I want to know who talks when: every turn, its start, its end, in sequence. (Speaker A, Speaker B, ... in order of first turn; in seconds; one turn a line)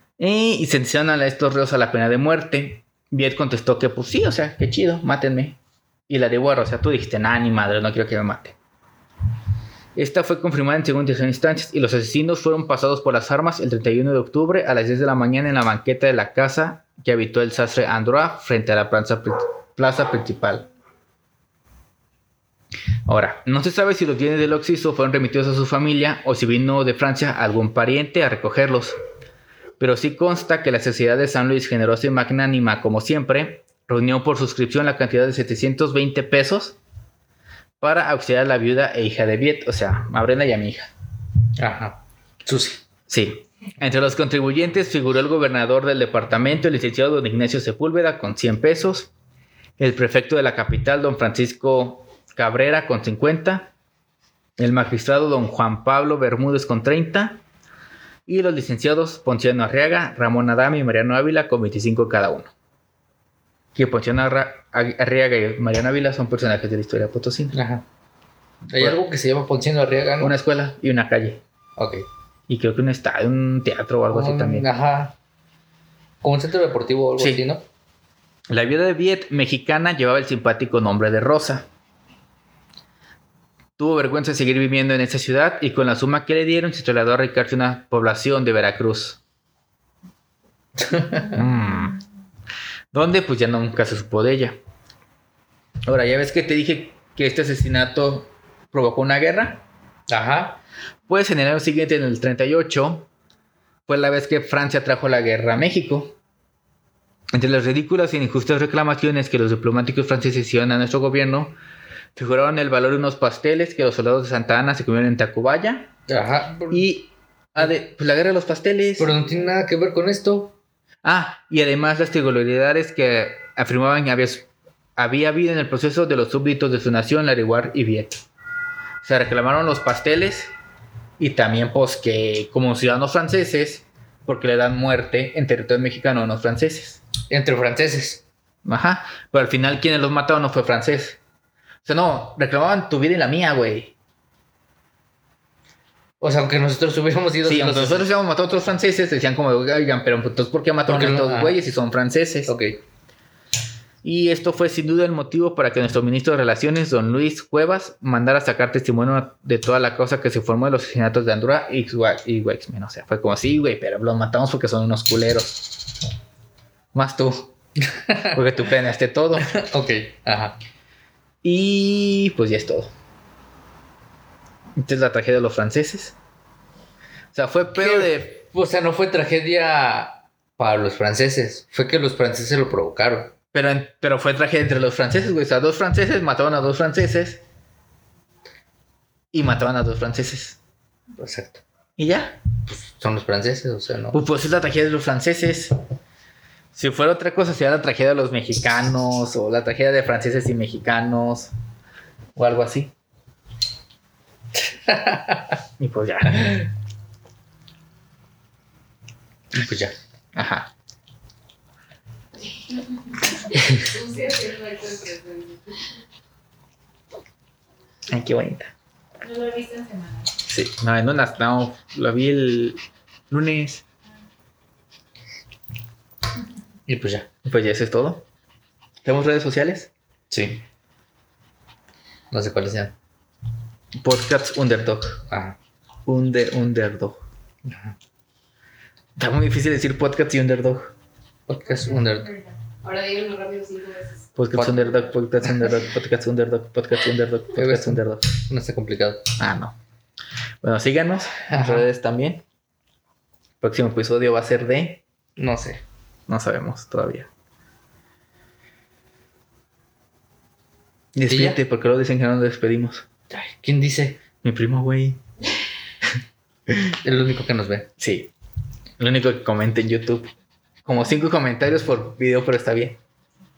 Speaker A: 0.2-8.6
Speaker A: 9.9-20.7
Speaker A: 23.1-28.9
Speaker A: 29.8-36.8
Speaker A: 37.8-40.9
Speaker B: 41.6-42.8
Speaker A: 43.1-49.1
Speaker A: 49.8-53.7
Speaker A: 54.6-57.4
Speaker A: 58.2-62.5
Speaker A: 63.7-67.6
Speaker B: 67.5-67.8
Speaker A: 68.7-69.0
Speaker B: 68.7-70.3
Speaker A: 70.2-71.4
Speaker B: 71.8-72.0
Speaker A: 72.5-74.7
Speaker B: 74.1-75.1
Speaker B: 76.2-77.6
Speaker A: 77.2-77.4
Speaker A: 78.5-81.7
Speaker A: 83.8-89.2
Speaker B: 90.8-91.4
Speaker A: 91.3-92.0
Speaker A: 92.9-94.6
Speaker A: 95.8-99.6
Speaker B: 100.1-100.6
Speaker A: 101.1-103.1
Speaker A: 103.8-106.2
Speaker A: 107.3-111.5
Speaker A: 112.2-115.9
Speaker B: 116.1-116.8
Speaker A: 116.7-119.1
Speaker B: 119.0-120.5
Speaker A: 121.0-128.2
Speaker A: 129.0-130.5
Speaker A: 131.2-137.0
Speaker B: 137.3-138.2
Speaker A: 138.7-141.2
Speaker A: 141.8-143.9
Speaker B: 146.2-148.1
Speaker A: 147.4-152.5
Speaker B: 150.9-151.6
Speaker B: 152.5-152.8
Speaker A: 154.0-165.8
Speaker A: 166.9-167.5
Speaker B: 167.8-168.4
Speaker A: 168.3-169.6
Speaker B: 169.4-170.6
Speaker A: 171.4-172.9
Speaker A: 174.8-176.2
Speaker A: 177.3-178.4
Speaker B: 177.8-183.3
Speaker A: 183.5-187.4
Speaker A: 189.3-190.6
Speaker B: 191.2-191.6
Speaker A: 192.0-192.4
Speaker B: 192.7-194.2
Speaker A: 194.1-195.7
Speaker A: 196.7-201.5
Speaker A: 202.3-202.9
Speaker B: 204.6-205.6
Speaker A: 205.8-206.6
Speaker B: 209.5-209.9
Speaker A: 210.3-210.7
Speaker C: 213.3-215.9
Speaker A: 218.1-218.7
Speaker C: 219.2-220.3
Speaker A: 220.4-222.8
Speaker A: 223.3-223.8
Speaker B: 226.8-227.3
Speaker A: 227.4-228.2
Speaker A: 229.0-229.9
Speaker B: 230.3-230.6
Speaker B: 232.3-232.9
Speaker A: 234.0-235.2
Speaker B: 235.3-235.6
Speaker A: 236.1-237.2
Speaker B: 237.6-237.9
Speaker A: 239.2-240.9
Speaker B: 241.5-242.3
Speaker C: 242.2-244.3
Speaker A: 244.3-248.3
Speaker B: 244.5-244.9
Speaker B: 247.5-249.2
Speaker A: 249.4-249.7
Speaker A: 250.6-252.4
Speaker B: 251.5-251.9
Speaker A: 253.6-255.0
Speaker B: 255.4-255.8
Speaker A: 256.3-257.3
Speaker A: 261.1-263.1
Speaker B: 261.3-261.6
Speaker B: 263.3-264.2
Speaker A: 264.4-265.2
Speaker B: 266.9-267.9
Speaker A: 268.0-268.3
Speaker A: 269.0-270.3
Speaker A: 270.8-273.0